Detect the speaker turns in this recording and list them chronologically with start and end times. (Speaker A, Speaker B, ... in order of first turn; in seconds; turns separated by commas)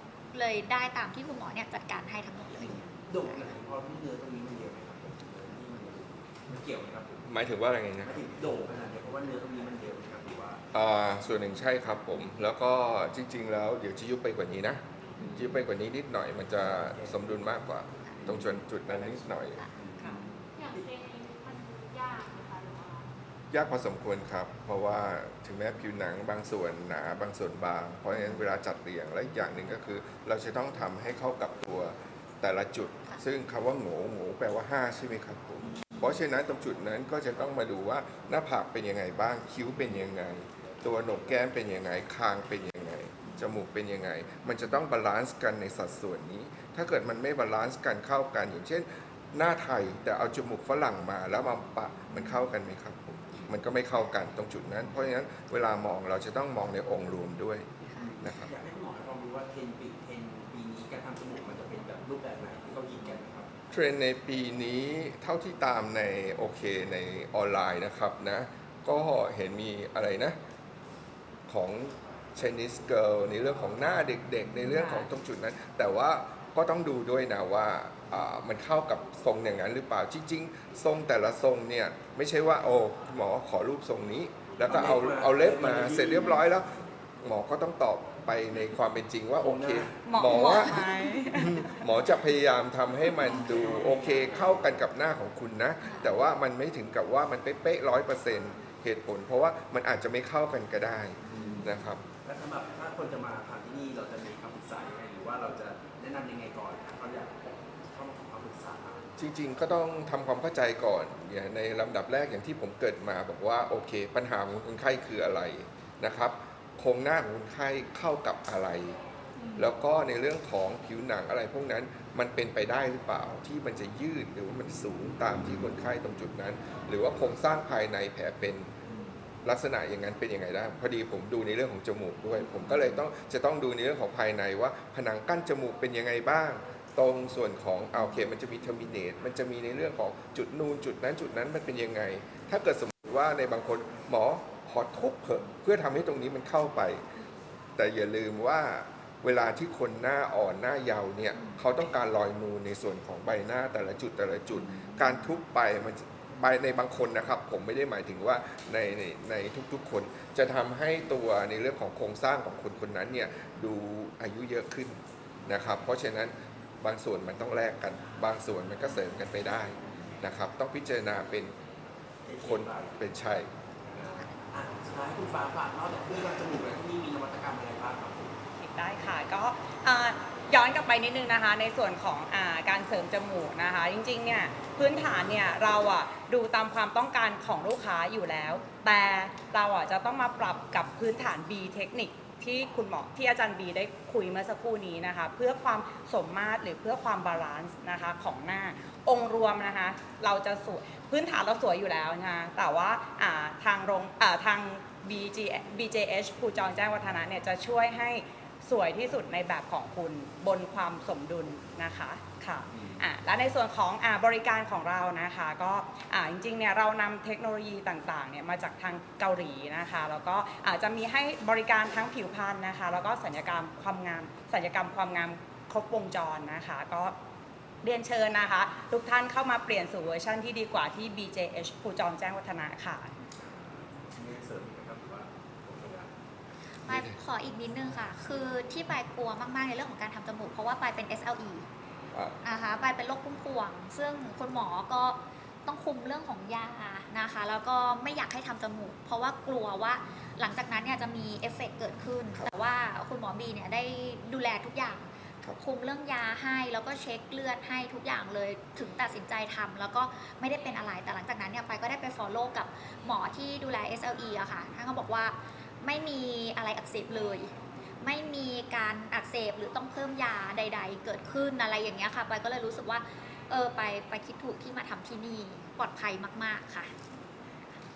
Speaker A: 0.3-3.5, Speaker B: 2.5-7.3, Speaker C: 7.3-8.2, Speaker B: 8.0-10.6, Speaker C: 10.7-19.6, Speaker B: 15.2-15.6, Speaker B: 16.6-17.5, Speaker B: 18.2-20.7, Speaker D: 20.6-23.0, Speaker C: 23.5-57.7, Speaker A: 57.9-58.1, Speaker B: 58.0-63.5, Speaker C: 58.2-58.5, Speaker C: 63.7-70.4, Speaker C: 71.5-86.7, Speaker B: 84.7-86.5, Speaker C: 87.2-102.0, Speaker B: 89.4-90.6, Speaker E: 90.0-91.6, Speaker B: 93.2-94.9, Speaker B: 101.3-109.0, Speaker C: 109.2-119.0, Speaker C: 119.6-128.7, Speaker C: 129.4-147.0, Speaker C: 147.8-171.6, Speaker B: 172.2-173.0, Speaker C: 172.4-173.5, Speaker B: 173.9-178.4, Speaker E: 178.6-227.2, Speaker B: 212.7-213.1, Speaker E: 227.8-233.2, Speaker B: 233.4-236.1, Speaker C: 236.9-237.2, Speaker A: 236.9-241.7, Speaker A: 242.4-276.9